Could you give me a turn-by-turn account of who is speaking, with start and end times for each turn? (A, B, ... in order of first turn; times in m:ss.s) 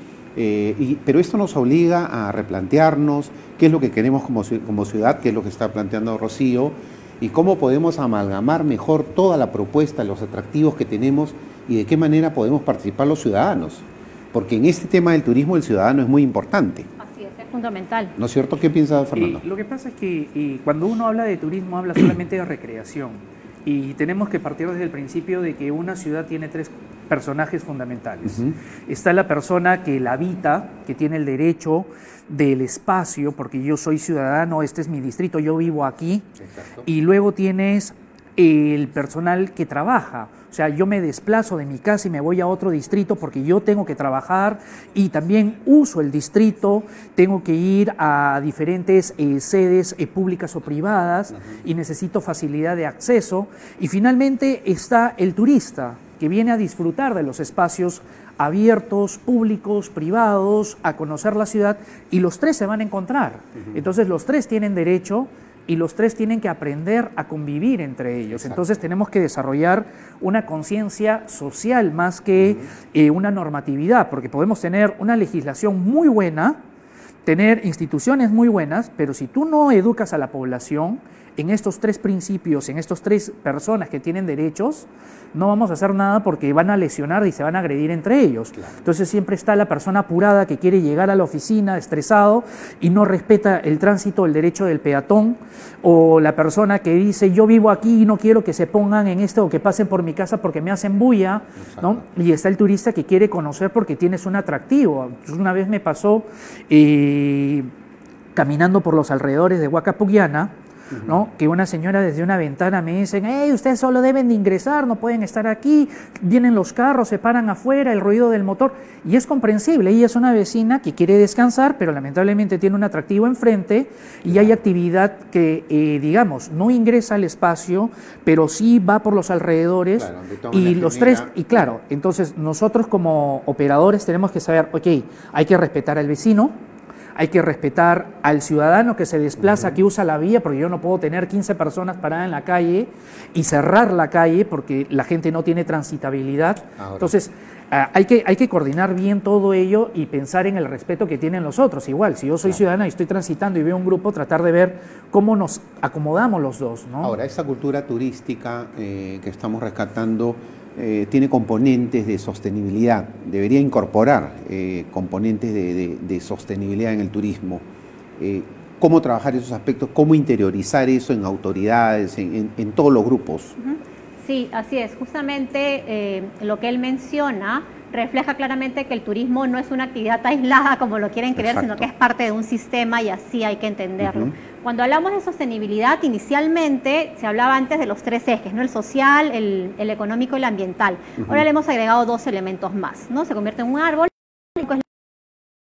0:00.4-0:16.9 A
0:17.0-0:18.2 B
0:18.2-0:19.4 A
0:19.2-0:36.3 C
0:36.4-0:36.9 A
0:36.8-1:16.6 C
1:12.4-1:12.7 A
1:17.2-1:47.7 C
1:41.6-1:42.0 A
1:48.3-1:50.5 C
1:51.0-2:16.6 C
2:04.3-2:04.5 A
2:10.0-2:11.6 A
2:17.2-2:37.1 C
2:26.8-2:27.2 A
2:37.0-2:47.6 A
2:48.2-2:53.6 A
2:53.6-3:14.8 B
3:01.4-3:01.9 A
3:04.0-3:04.3 A